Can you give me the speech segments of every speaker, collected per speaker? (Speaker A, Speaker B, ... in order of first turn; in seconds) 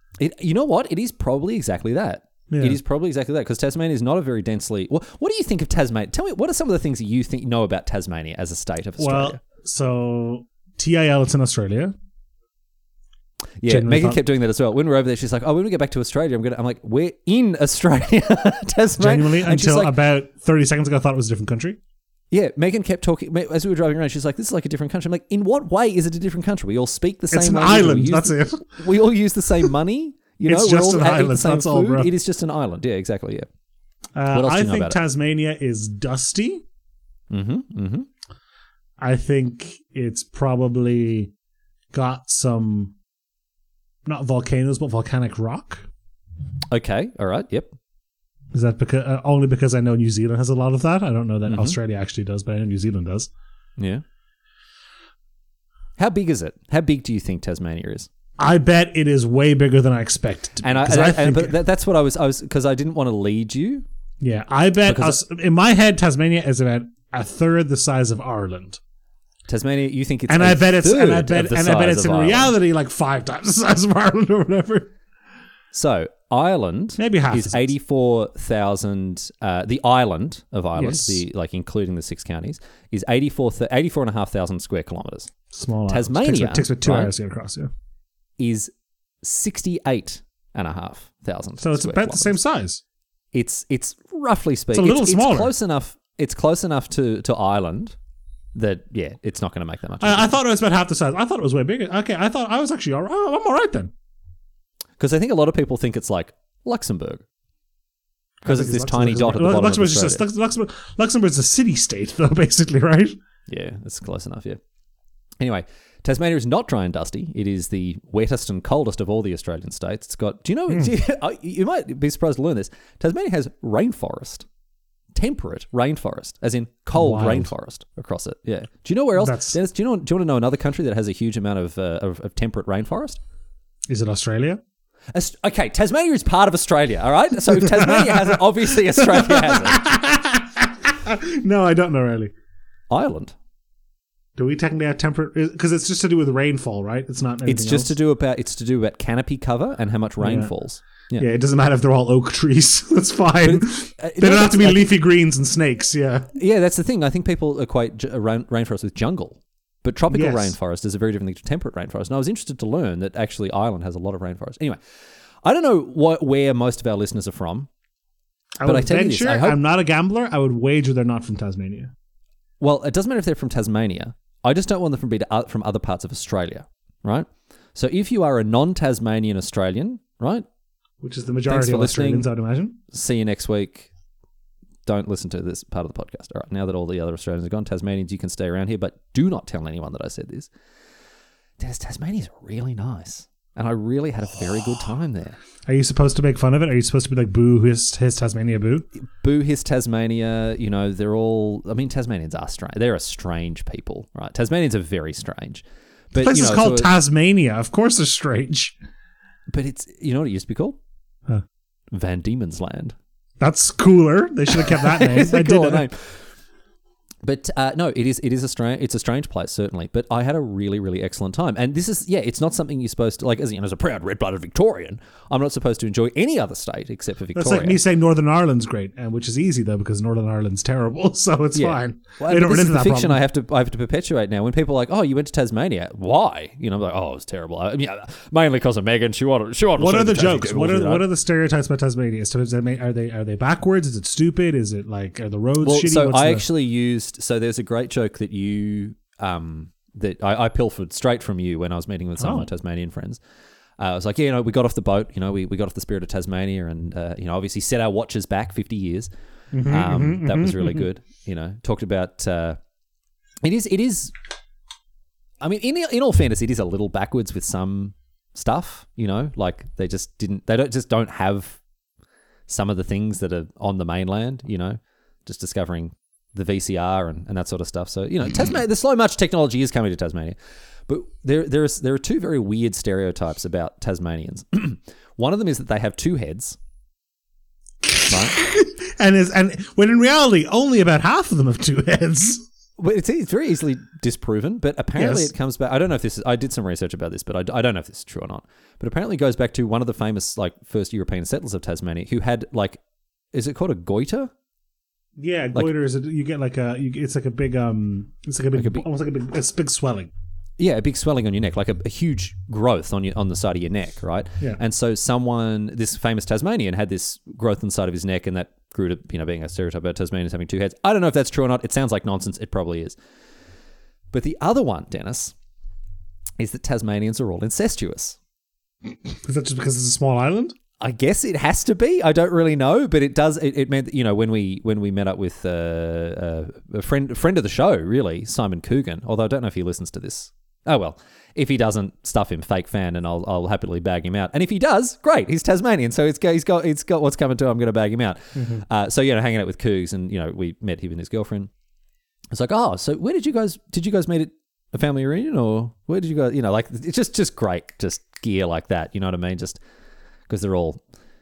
Speaker A: 0.2-9.4, 13.6-19.9, 22.3-33.5, 34.3-35.0, 37.3-38.1, 46.7-47.7, 51.5-51.8, 53.8-54.0, 56.0-58.1, 60.6-63.8, 64.8-65.2, 69.5-72.5, 75.7-85.3, 85.9-87.1, 88.4-92.4, 93.3-98.0, 98.5-100.3, 105.0-107.2, 108.4-110.2, 113.5-114.6, 115.4-124.5, 125.1-133.2, 135.1-139.8, 142.9-143.3, 147.4-151.3, 153.4-154.9, 156.3-164.8, 165.4-167.7, 168.6-169.6, 172.6-180.4, 181.5-182.3, 182.9-183.9, 184.8-190.5, 191.6-195.4, 199.0-206.9, 209.5-210.8, 211.9-212.9, 214.5-216.2, 217.2-227.8, 231.5-241.1, 245.6-253.2, 253.8-259.1, 259.6-262.6, 263.4-264.1, 265.4-271.6, 272.5-280.4, 280.9-286.6, 288.1-288.4, 292.8-302.8, 303.3-304.3, 308.5-308.8, 310.6-323.0, 324.1-325.3, 326.4-328.2, 330.8-351.5, 352.3-359.6, 360.3-360.8
Speaker B: 2.5-2.8, 9.0-11.9, 13.7-14.2, 19.0-21.8, 27.3-28.8, 30.4-32.1, 34.1-36.6, 39.0-41.3, 41.9-43.0, 44.0-45.9, 48.5-53.3, 58.4-61.5, 64.2-68.8, 70.3-74.9, 77.0-77.7, 80.8-81.2, 85.5-87.7, 91.6-92.8, 94.7-95.5, 100.0-103.9, 108.4-113.2, 126.9-127.5, 129.2-129.6, 133.9-134.6, 137.5-142.3, 144.3-147.9, 150.2-150.5, 151.2-156.3, 160.1-160.6, 168.6-171.9, 181.0-182.8, 195.7-198.8, 206.2-208.8, 213.4-215.8, 227.3-233.2, 239.8-246.4, 252.2-252.5, 259.5-260.8, 287.8-292.4, 294.9-295.3, 305.2-310.1, 329.0-330.6, 348.4-348.6